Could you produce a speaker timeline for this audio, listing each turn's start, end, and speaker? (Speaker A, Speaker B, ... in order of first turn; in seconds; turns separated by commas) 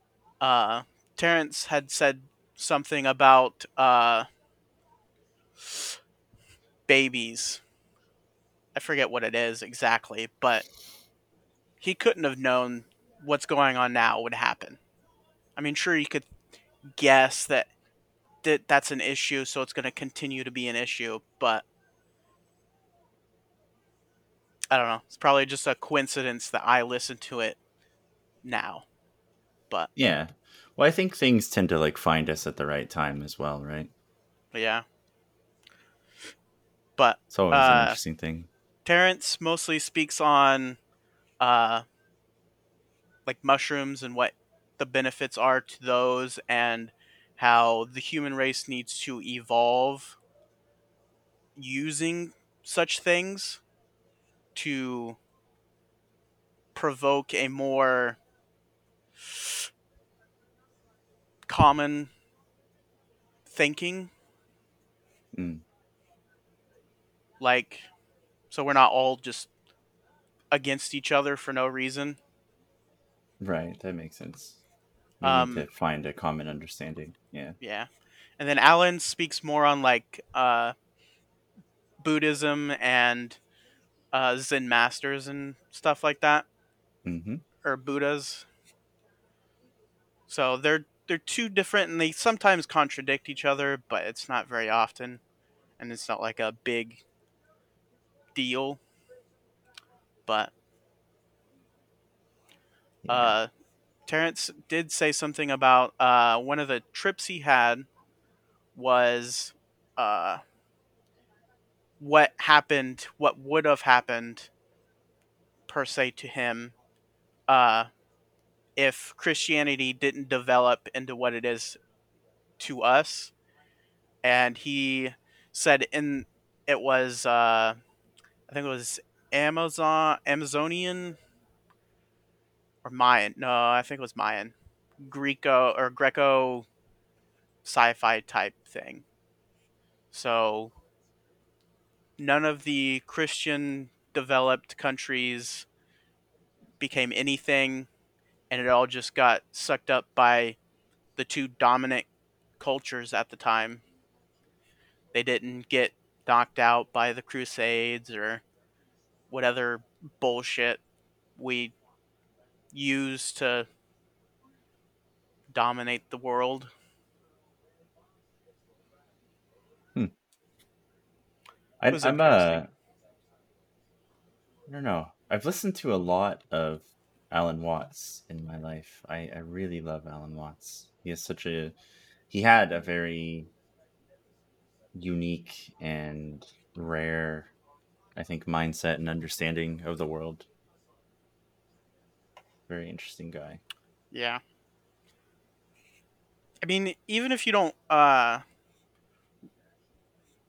Speaker A: 0.4-4.3, Speaker A: 6.9-7.6, Speaker A: 8.7-10.6, Speaker A: 11.8-14.8, Speaker A: 15.6-16.3, Speaker A: 17.0-17.7, Speaker A: 18.4-21.6, Speaker A: 24.7-27.6, Speaker A: 28.4-28.9, Speaker B: 29.9-33.9, Speaker A: 34.5-34.8, Speaker A: 37.0-38.0, Speaker B: 37.3-38.5, Speaker A: 38.8-40.8, Speaker A: 41.4-41.8, Speaker A: 43.2-50.2, Speaker A: 51.5-53.6, Speaker A: 54.5-55.2, Speaker A: 56.7-58.2, Speaker A: 61.5-62.1, Speaker A: 63.5-64.1, Speaker B: 65.3-65.6, Speaker A: 67.4-67.9, Speaker A: 68.5-69.5, Speaker A: 70.5-72.2, Speaker B: 73.4-74.6, Speaker B: 75.2-77.6, Speaker A: 75.2-75.7, Speaker A: 77.6-80.7, Speaker A: 82.0-83.4, Speaker A: 84.1-86.5, Speaker B: 87.0-87.4, Speaker A: 87.6-88.5, Speaker A: 90.3-95.2, Speaker A: 95.8-97.0, Speaker A: 98.3-98.8, Speaker A: 100.3-100.5, Speaker B: 103.0-103.3, Speaker A: 103.1-103.5, Speaker A: 104.1-107.9, Speaker A: 108.7-110.4, Speaker A: 112.0-114.5, Speaker A: 115.7-116.7, Speaker A: 117.5-117.9, Speaker A: 118.8-121.8, Speaker A: 122.6-123.3, Speaker A: 124.2-127.8, Speaker A: 128.5-131.2, Speaker A: 132.8-136.7, Speaker A: 137.6-139.0, Speaker A: 140.1-140.7, Speaker A: 142.2-145.7, Speaker A: 146.8-147.9, Speaker A: 148.5-150.6, Speaker A: 151.2-152.1, Speaker A: 152.6-153.8, Speaker A: 155.1-158.4, Speaker A: 159.3-160.8, Speaker A: 161.4-161.7, Speaker A: 162.7-163.7, Speaker A: 165.5-166.7, Speaker B: 171.8-172.7, Speaker A: 171.9-172.6, Speaker B: 174.7-181.8, Speaker B: 182.3-183.5, Speaker B: 184.9-187.5, Speaker B: 188.2-190.5, Speaker B: 192.7-193.6, Speaker A: 194.1-194.4, Speaker A: 196.6-198.4